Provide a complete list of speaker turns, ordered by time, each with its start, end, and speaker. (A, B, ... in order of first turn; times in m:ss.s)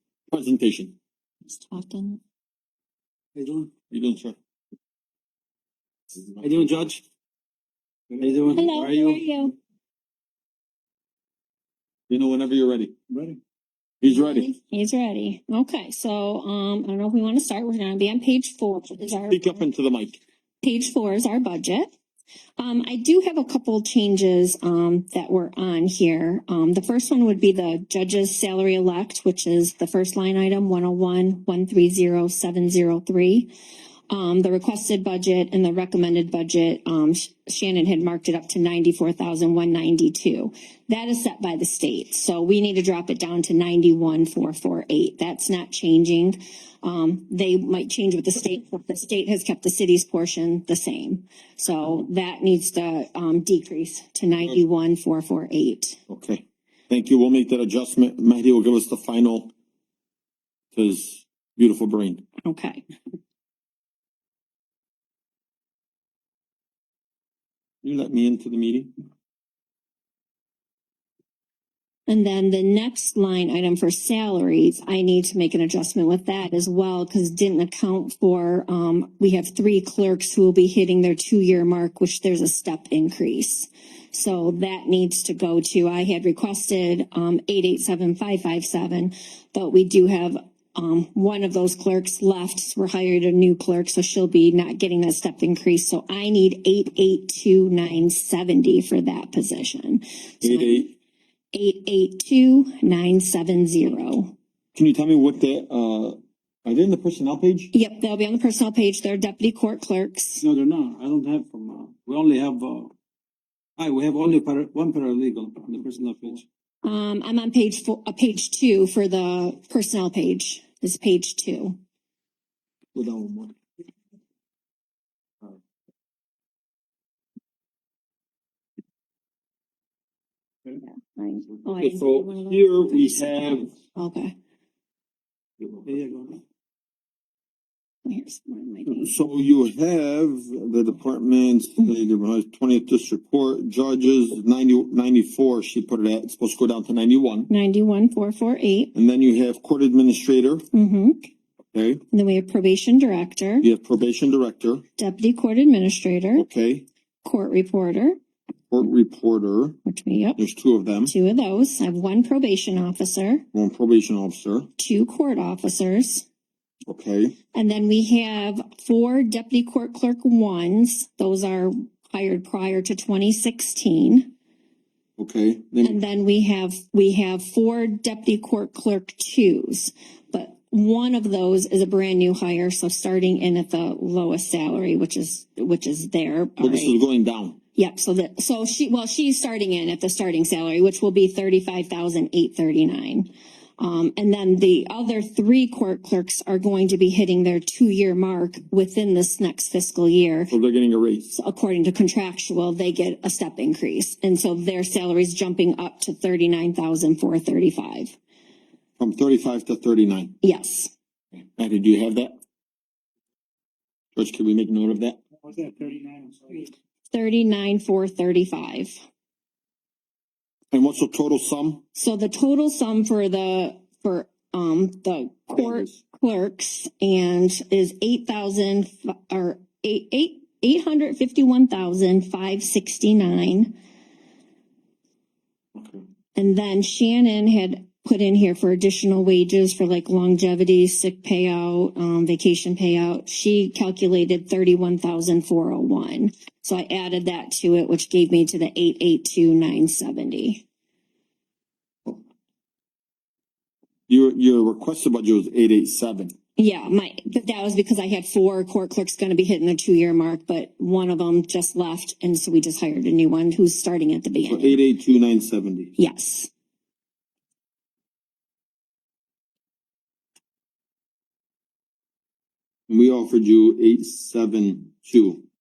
0:00.3-0:01.0 A
0:01.5-0:02.2 B
0:03.4-0:03.7 C
0:03.9-0:04.4 A
0:06.4-0:07.0 C
0:08.2-0:09.2 C
0:08.5-0:09.5 B
0:12.1-0:13.0 A
0:14.0-0:14.5 A
0:14.1-0:19.6 B
0:19.3-0:20.2 A
0:20.6-0:21.9 B
0:22.6-0:33.5 B
0:34.1-0:56.0 B
0:56.1-0:59.5 A
1:00.7-1:02.2 A
1:02.4-1:02.8 B
1:07.8-1:08.9 A
1:12.1-1:40.8 B
1:40.4-1:40.9 A
1:41.5-1:44.3 B
1:44.8-1:47.7 A
1:47.7-1:50.4 B
1:50.4-1:52.9 C
1:53.8-1:56.4 C
1:56.8-2:01.8 B
2:02.9-2:03.5 A
2:10.8-2:14.3 B
2:11.8-2:13.7 A
2:15.8-2:16.4 C
2:18.1-2:19.1 B
2:19.0-2:27.5 A
2:27.5-2:28.9 B
2:28.9-2:30.6 A
2:30.7-2:31.3 B
2:31.7-2:32.0 A
2:32.1-2:33.7 B
2:33.6-2:34.8 A
2:35.0-2:36.4 B
2:36.4-2:36.8 A
2:37.2-2:38.2 B
2:38.7-2:39.8 A
2:39.9-2:40.4 B
2:40.4-2:41.1 A
2:41.0-2:43.4 B
2:43.5-2:44.7 A
2:44.8-2:46.2 B
2:46.9-2:47.4 A
2:47.5-2:54.3 B
2:55.2-2:56.0 A
2:55.8-3:07.0 B
3:06.6-3:07.6 A
3:07.8-3:20.5 B
3:20.5-3:21.3 A
3:21.3-3:28.2 B
3:29.0-3:30.3 A
3:30.4-3:30.9 B
3:31.4-3:32.4 A
3:34.2-3:35.2 A
3:36.5-3:39.0 B
3:40.7-3:41.8 A
3:42.0-3:53.8 B
3:45.6-3:46.0 A
3:55.8-3:56.0 A
3:56.4-4:10.6 B
4:14.1-4:16.3 A
4:16.6-4:24.8 B
4:24.4-4:25.9 A
4:26.0-4:26.5 B
4:32.9-4:35.4 A